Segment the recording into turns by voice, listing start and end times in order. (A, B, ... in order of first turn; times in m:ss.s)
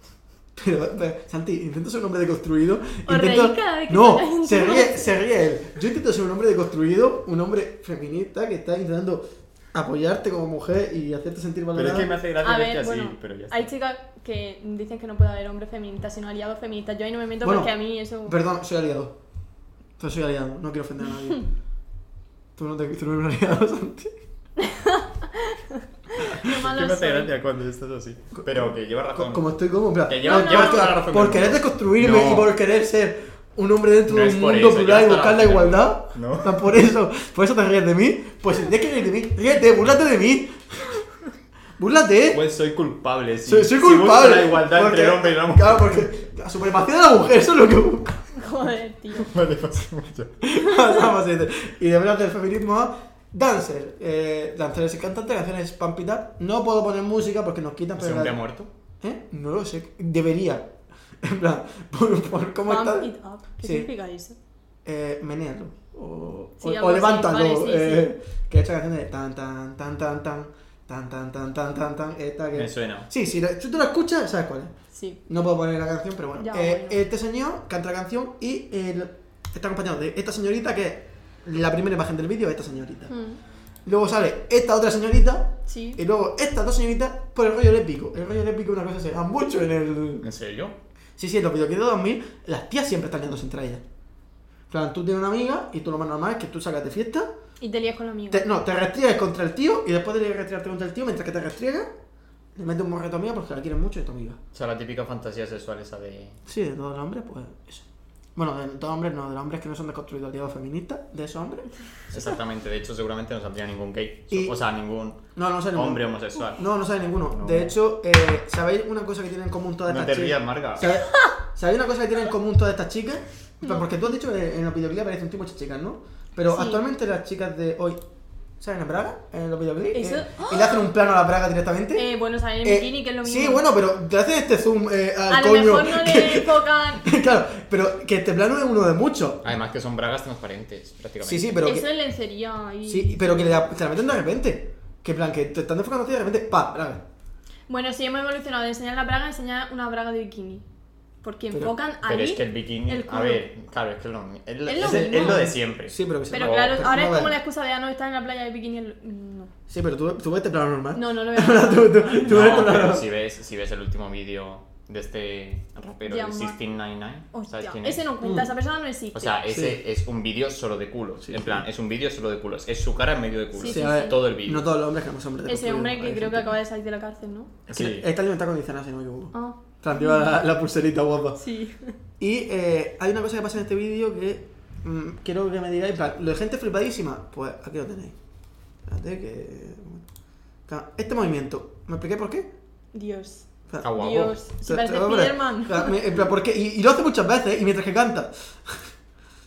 0:00.6-0:12.1 A
0:03.1-0:05.2 B
0:11.8-0:13.7 C
0:12.4-0:18.4 B
0:17.4-0:19.2 A
0:20.0-0:21.5 A
0:22.6-0:24.1 A
0:24.6-0:27.3 B
0:26.4-0:29.4 C
0:28.4-0:41.0 A
0:30.1-0:32.5 C
0:30.2-0:30.9 B
0:34.1-0:36.7 C
0:41.8-0:42.4 A
0:42.3-0:46.1 C
0:43.5-0:48.3 A
0:48.4-0:49.3 B
0:49.1-0:50.3 C
0:50.4-0:58.4 A
0:58.0-0:58.7 C
0:59.0-1:03.1 A
1:02.6-1:04.4 B
1:03.6-1:03.9 A
1:04.8-1:14.7 A
1:06.6-1:08.1 B
1:12.6-1:13.1 C
1:14.9-1:15.2 B
1:15.3-1:23.1 A
1:16.4-1:17.0 B
1:23.1-1:23.4 B
1:23.9-1:30.3 A
1:25.7-1:26.0 B
1:30.2-1:30.8 C
1:31.2-1:33.8 A
1:34.7-1:37.3 A
1:37.6-1:38.5 B
1:38.3-1:41.9 A
1:42.6-1:44.4 A
1:44.5-1:46.4 C
1:46.5-1:47.8 A
1:48.4-1:51.7 A
1:52.1-1:56.6 C
1:54.3-1:54.6 A
1:55.3-2:08.0 A
1:57.3-1:57.7 C
1:59.9-2:01.0 C
2:00.8-2:01.4 B
2:03.6-2:03.9 B
2:06.5-2:06.9 B
2:08.6-2:12.1 A
2:09.9-2:10.8 B
2:11.9-2:13.6 B
2:12.6-2:19.5 A
2:15.3-2:17.1 B
2:19.4-2:21.7 C
2:21.2-2:21.9 A
2:21.6-2:23.6 B
2:22.9-2:27.0 A
2:27.7-2:30.6 B
2:31.2-2:33.4 B
2:32.1-2:36.8 C
2:34.7-2:35.5 B
2:34.8-2:37.3 A
2:36.3-2:39.5 B
2:39.7-2:43.1 A
2:41.0-2:42.7 B
2:42.2-2:48.0 C
2:46.1-2:46.6 B
2:47.3-2:49.4 B
2:48.2-2:48.5 A
2:49.1-2:54.7 C
2:49.5-2:49.8 A
2:51.2-2:51.6 A
2:53.6-2:54.2 B
2:53.6-2:56.5 A
2:55.5-2:57.5 B
2:57.7-2:58.1 C
2:57.7-3:01.4 A
2:59.3-3:00.3 B
3:01.4-3:02.0 B
3:02.2-3:08.2 A
3:08.9-3:10.0 A
3:10.7-3:12.5 A
3:12.9-3:16.0 B
3:13.8-3:14.4 C
3:14.6-3:18.9 A